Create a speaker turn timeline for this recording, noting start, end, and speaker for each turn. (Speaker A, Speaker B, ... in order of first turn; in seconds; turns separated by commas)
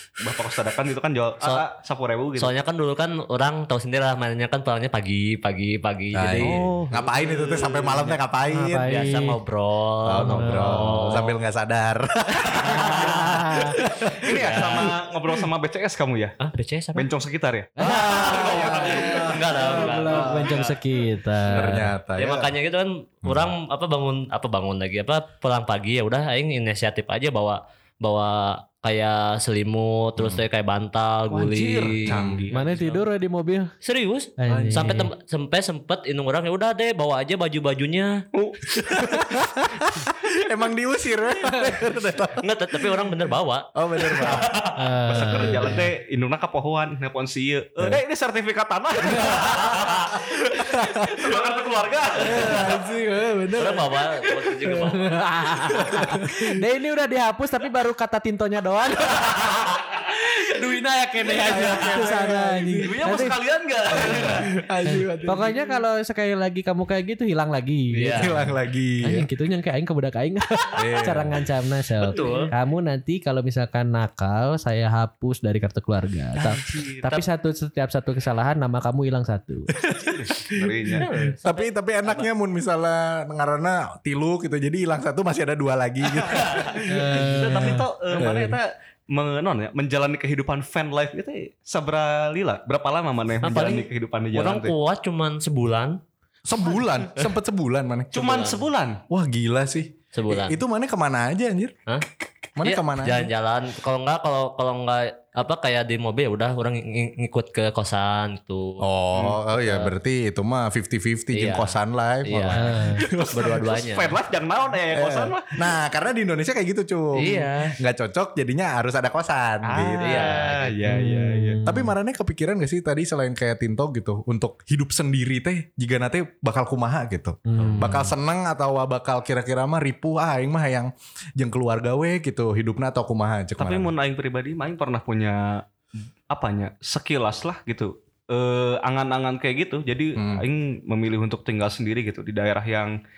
Speaker A: 0.2-2.5, Speaker B: 2.4-6.7, Speaker C: 6.1-8.9, Speaker A: 6.4-8.2, Speaker D: 8.5-9.4, Speaker B: 8.8-11.3, Speaker C: 10.0-15.0, Speaker D: 10.2-11.2, Speaker B: 12.6-13.5, Speaker A: 12.8-13.1, Speaker D: 13.4-13.8, Speaker A: 14.2-16.4, Speaker B: 14.3-14.9, Speaker B: 16.4-17.1, Speaker A: 16.9-19.3, Speaker C: 17.8-20.6, Speaker B: 17.8-20.7, Speaker D: 17.8-18.2, Speaker D: 19.5-21.9, Speaker C: 21.5-22.5, Speaker B: 21.6-33.0, Speaker C: 23.2-23.5, Speaker C: 30.2-30.4, Speaker A: 31.3-32.5, Speaker C: 32.0-32.4, Speaker D: 32.5-33.7, Speaker B: 33.8-38.2, Speaker D: 34.4-35.1, Speaker C: 34.5-35.0, Speaker A: 38.3-39.4, Speaker C: 38.8-42.4, Speaker B: 42.4-44.8, Speaker C: 43.7-44.5, Speaker D: 44.7-45.9, Speaker A: 45.1-52.8, Speaker B: 49.6-49.9, Speaker C: 50.6-51.3, Speaker B: 52.1-52.7, Speaker C: 52.2-54.9, Speaker B: 53.5-55.1, Speaker D: 54.8-59.4, Speaker C: 55.6-56.5, Speaker D: 60.5-63.4, Speaker A: 61.2-62.0, Speaker C: 61.4-62.9, Speaker A: 62.8-64.5, Speaker C: 63.9-65.7, Speaker B: 64.0-64.4, Speaker D: 64.8-68.5, Speaker B: 67.9-68.4, Speaker C: 68.1-69.3, Speaker D: 69.0-79.7, Speaker C: 70.8-71.4, Speaker B: 72.0-72.5, Speaker A: 76.6-77.0, Speaker C: 79.7-88.6, Speaker A: 80.3-81.2, Speaker B: 81.0-82.2, Speaker A: 86.2-94.7, Speaker D: 86.9-87.8, Speaker B: 93.4-96.0, Speaker C: 96.5-98.4, Speaker A: 98.1-99.0, Speaker B: 98.2-98.6, Speaker C: 99.1-101.8, Speaker B: 100.1-100.6, Speaker C: 102.6-103.3, Speaker B: 102.6-109.9, Speaker C: 108.8-113.7, Speaker B: 111.3-114.2, Speaker D: 112.5-113.0, Speaker A: 113.1-115.5, Speaker C: 114.9-120.3, Speaker B: 117.2-117.7, Speaker A: 119.6-121.6, Speaker B: 120.0-120.7, Speaker D: 120.8-121.9, Speaker C: 121.6-133.9, Speaker D: 127.5-128.1, Speaker B: 127.6-128.0, Speaker A: 133.6-135.7, Speaker A: 136.3-142.9, Speaker C: 140.2-140.4